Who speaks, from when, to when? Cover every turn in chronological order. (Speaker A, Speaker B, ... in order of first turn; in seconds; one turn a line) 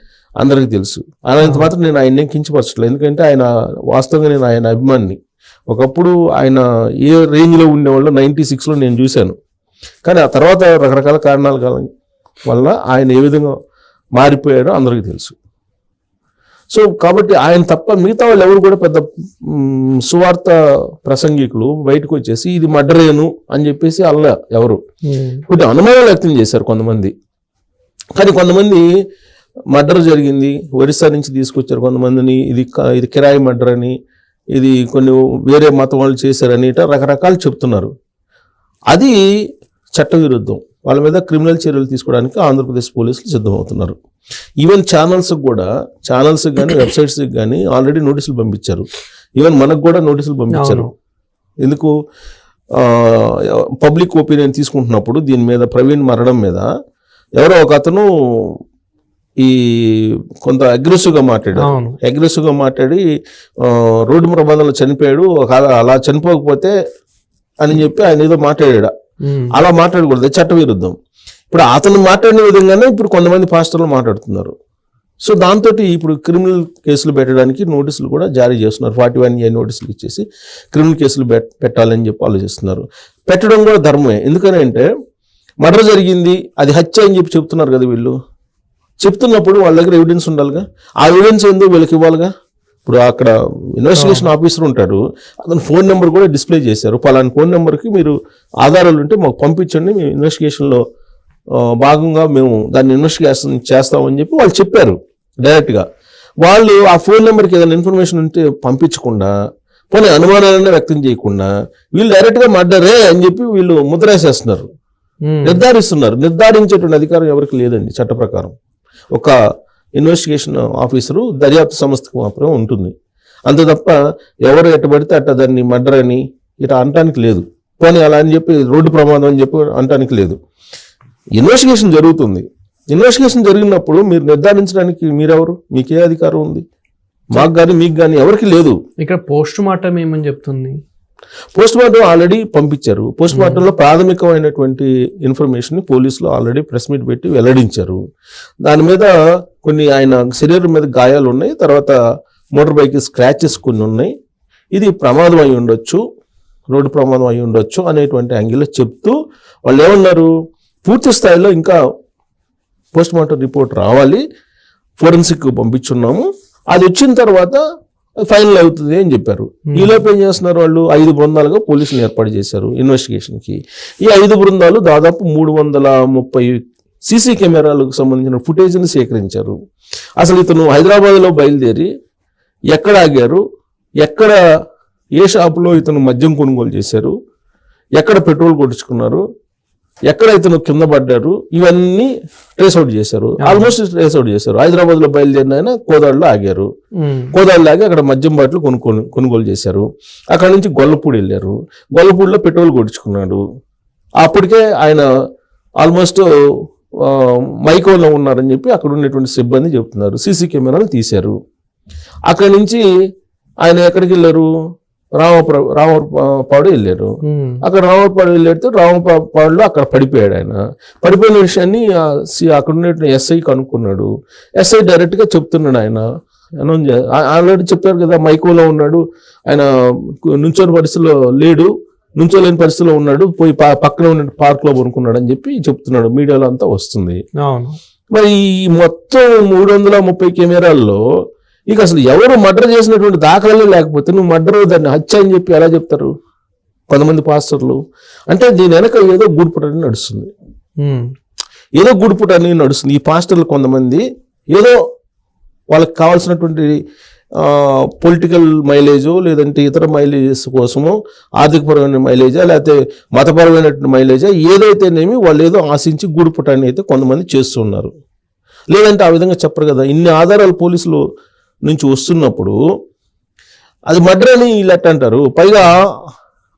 Speaker A: 0.4-5.2
Speaker B: 1.4-1.7
Speaker A: 5.7-9.3
Speaker A: 10.1-11.9
Speaker A: 12.4-13.6
Speaker A: 14.2-15.3
Speaker A: 16.7-24.8
Speaker B: 25.1-25.4
Speaker A: 25.5-27.1
Speaker A: 28.2-28.9
Speaker A: 29.7-34.0
Speaker A: 34.5-37.9
Speaker A: 38.9-39.2
Speaker A: 40.0-44.0
Speaker A: 44.6-50.9
Speaker B: 50.5-50.9
Speaker A: 51.6-51.9
Speaker A: 52.8-56.7
Speaker A: 57.4-58.6
Speaker A: 59.4-63.0
Speaker B: 61.6-62.0
Speaker A: 63.6-66.7
Speaker A: 67.6-68.9
Speaker B: 69.2-69.5
Speaker A: 69.5-71.0
Speaker A: 71.5-74.5
Speaker A: 75.2-84.9
Speaker A: 85.6-88.2
Speaker A: 89.0-92.3
Speaker A: 92.8-100.8
Speaker B: 94.0-94.3
Speaker A: 101.6-105.8
Speaker A: 106.4-109.3
Speaker A: 109.9-114.7
Speaker B: 115.3-115.6
Speaker A: 115.5-118.5
Speaker A: 120.0-122.9
Speaker A: 123.5-130.4
Speaker A: 131.4-136.7
Speaker A: 137.3-138.8
Speaker B: 139.0-140.8
Speaker A: 141.5-148.0
Speaker B: 143.3-143.6
Speaker A: 148.7-152.0
Speaker A: 152.6-154.1
Speaker A: 154.7-156.0
Speaker A: 156.7-160.3
Speaker A: 160.8-161.8
Speaker A: 162.9-164.2
Speaker A: 165.0-167.6
Speaker A: 168.2-179.6
Speaker A: 180.2-181.9
Speaker A: 182.7-183.4
Speaker A: 184.0-184.4
Speaker A: 185.2-187.1
Speaker A: 188.0-189.2
Speaker A: 190.1-196.7
Speaker B: 193.4-193.7
Speaker B: 197.0-197.3
Speaker A: 197.3-203.4
Speaker A: 204.2-205.1
Speaker A: 205.8-206.2
Speaker A: 207.0-211.4
Speaker A: 212.3-212.8
Speaker A: 213.6-214.5
Speaker A: 215.2-217.1
Speaker B: 217.2-217.6
Speaker A: 217.6-226.1
Speaker A: 226.6-237.2
Speaker B: 237.4-237.8
Speaker A: 238.1-241.0
Speaker A: 241.7-246.1
Speaker A: 246.9-247.8
Speaker A: 248.3-250.3
Speaker B: 250.8-251.1
Speaker A: 251.8-254.8
Speaker A: 255.7-256.8
Speaker A: 257.4-267.9
Speaker A: 268.7-271.0
Speaker A: 271.6-272.6
Speaker A: 273.9-275.8